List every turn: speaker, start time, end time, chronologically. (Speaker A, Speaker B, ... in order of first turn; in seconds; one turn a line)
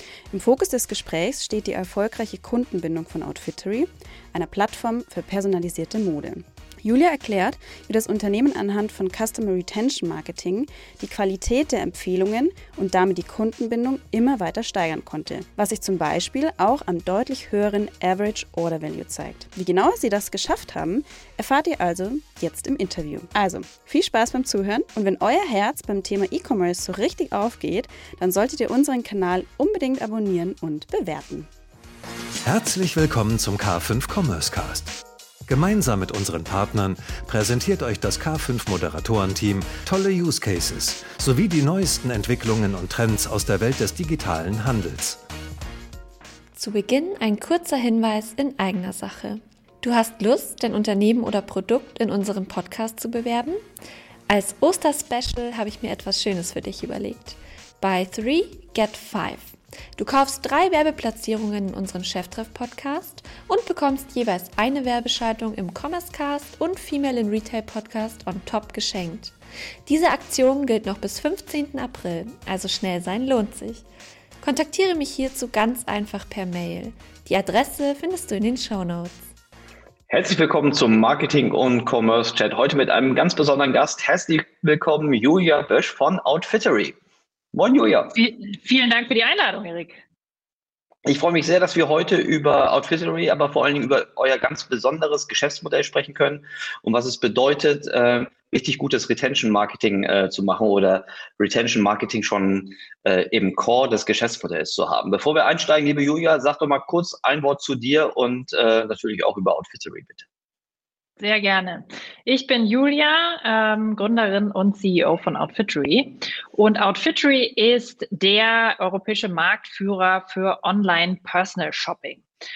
Speaker A: 0.3-31.5
Speaker B: 32.4-45.2
Speaker C: 46.5-53.6
Speaker C: 54.3-69.3
Speaker C: 69.9-73.8
Speaker C: 74.4-79.2
Speaker D: 80.1-87.0
Speaker D: 87.5-88.2
Speaker E: 88.2-90.0
Speaker D: 91.0-110.2
Speaker E: 111.2-122.2